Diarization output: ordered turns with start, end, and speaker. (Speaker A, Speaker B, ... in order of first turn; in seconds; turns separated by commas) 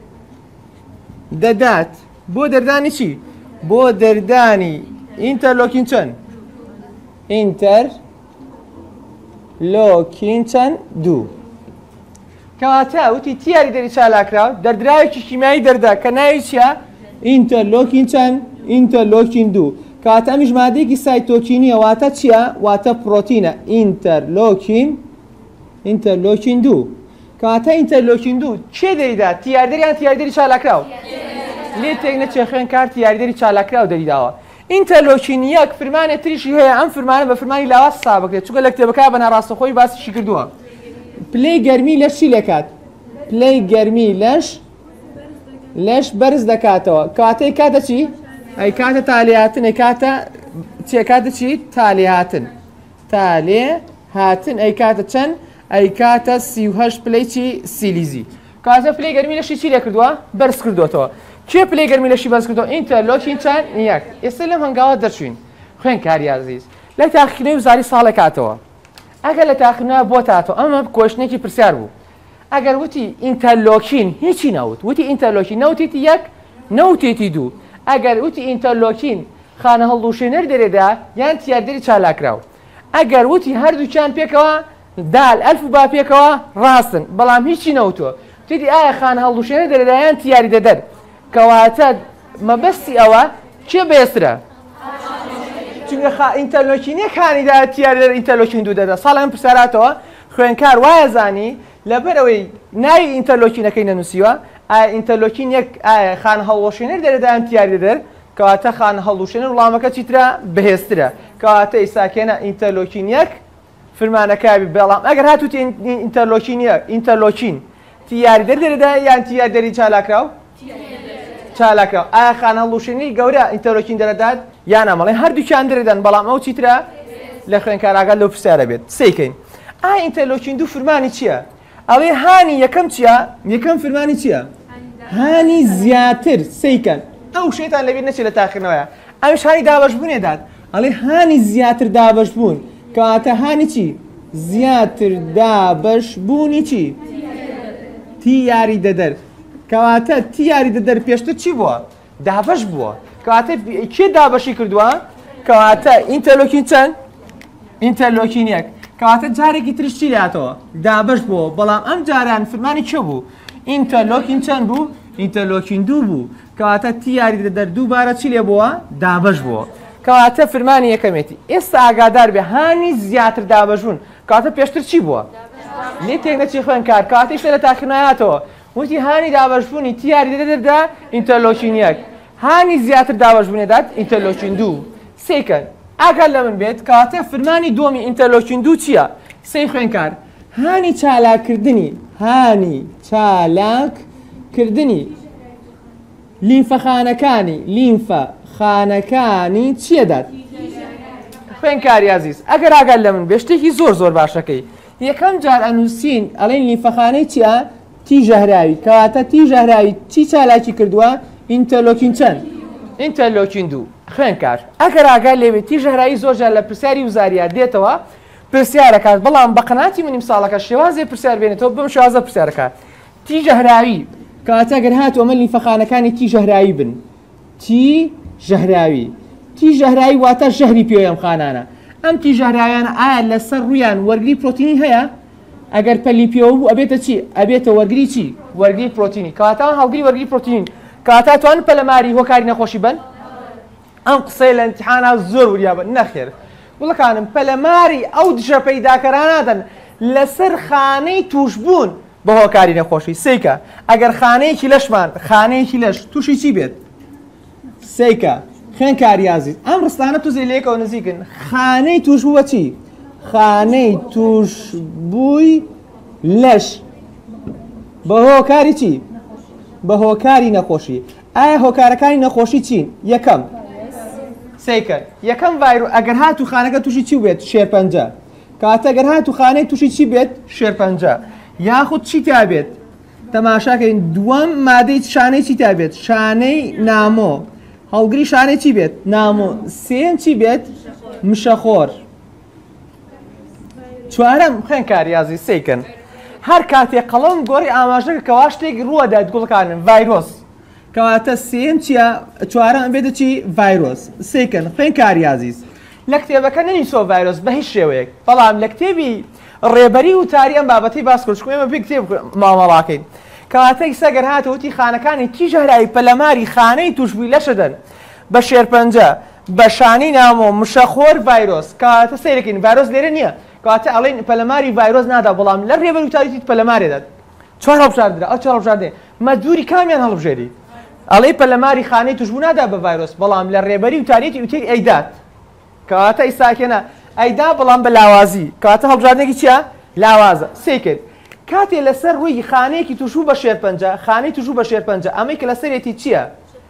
Speaker A: 1.3-6.2, Speaker A: 7.3-8.0, Speaker A: 9.6-11.3, Speaker A: 12.6-25.1, Speaker A: 25.8-30.9, Speaker A: 31.8-40.5, Speaker A: 41.3-42.7, Speaker A: 43.3-44.6, Speaker A: 45.7-52.5, Speaker A: 53.1-68.6, Speaker A: 69.2-71.9, Speaker A: 72.5-94.4, Speaker A: 95.9-113.3, Speaker A: 114.0-120.3, Speaker A: 121.5-126.9, Speaker A: 127.5-134.5, Speaker A: 135.1-147.0, Speaker A: 148.2-156.9, Speaker A: 157.8-175.3, Speaker A: 176.0-195.1, Speaker A: 196.4-200.3, Speaker A: 201.6-212.4, Speaker A: 213.0-222.7, Speaker A: 223.2-227.0, Speaker A: 227.6-235.1, Speaker A: 235.7-243.0, Speaker A: 244.1-256.8, Speaker A: 257.8-265.7, Speaker A: 266.2-266.8, Speaker A: 268.1-269.1, Speaker A: 269.8-273.5, Speaker A: 274.6-282.8, Speaker A: 283.3-292.0, Speaker A: 294.1-295.9, Speaker A: 296.4-300.4, Speaker A: 300.9-317.8, Speaker A: 318.3-327.1, Speaker A: 327.6-330.5, Speaker A: 331.1-335.1, Speaker A: 335.9-346.3